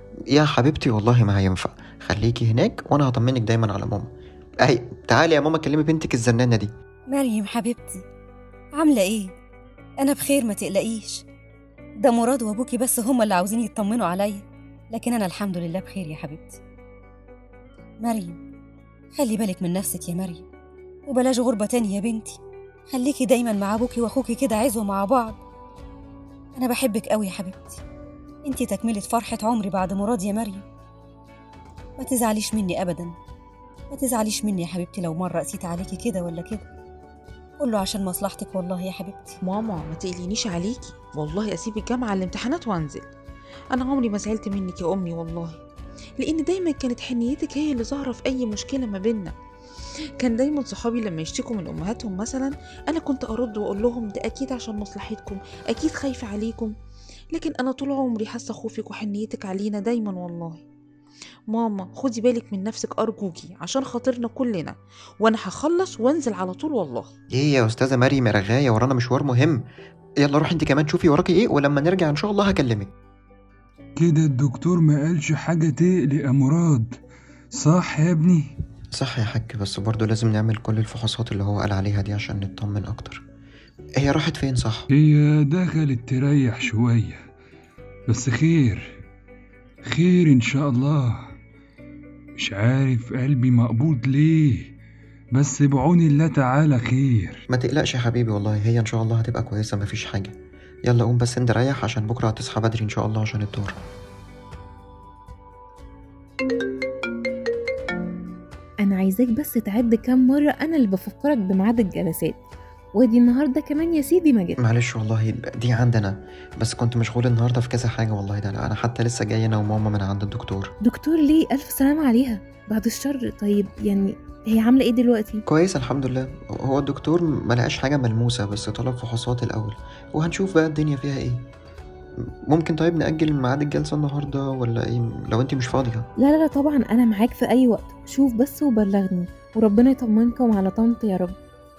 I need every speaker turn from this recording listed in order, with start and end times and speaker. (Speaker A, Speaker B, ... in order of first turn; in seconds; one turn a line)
Speaker A: 0.3-4.1
Speaker A: 4.6-6.7
Speaker B: 7.1-8.0
Speaker B: 8.7-9.3
Speaker B: 10.0-11.2
Speaker B: 12.0-16.6
Speaker B: 18.0-18.4
Speaker B: 19.1-20.4
Speaker B: 21.1-22.4
Speaker B: 22.9-25.4
Speaker B: 26.5-27.8
Speaker B: 28.4-30.6
Speaker B: 32.0-33.1
Speaker B: 33.9-36.7
Speaker B: 37.6-39.4
Speaker C: 39.4-43.0
Speaker C: 43.7-45.6
Speaker C: 46.2-49.3
Speaker C: 50.2-56.7
Speaker C: 57.3-60.6
Speaker C: 61.5-67.1
Speaker A: 67.3-69.6
Speaker A: 70.2-72.9
Speaker D: 74.0-76.9
Speaker D: 77.5-78.5
Speaker A: 78.9-83.2
Speaker A: 84.0-84.9
Speaker D: 84.9-87.2
Speaker D: 88.1-88.9
Speaker D: 89.8-91.2
Speaker D: 92.3-94.7
Speaker D: 95.3-97.4
Speaker A: 97.5-100.3
Speaker A: 100.9-103.8
Speaker E: 108.8-112.4
Speaker E: 113.0-114.6
Speaker A: 114.6-120.7
Speaker E: 120.8-125.4
Speaker A: 125.5-131.4
Speaker A: 132.4-136.1
Speaker E: 136.2-141.3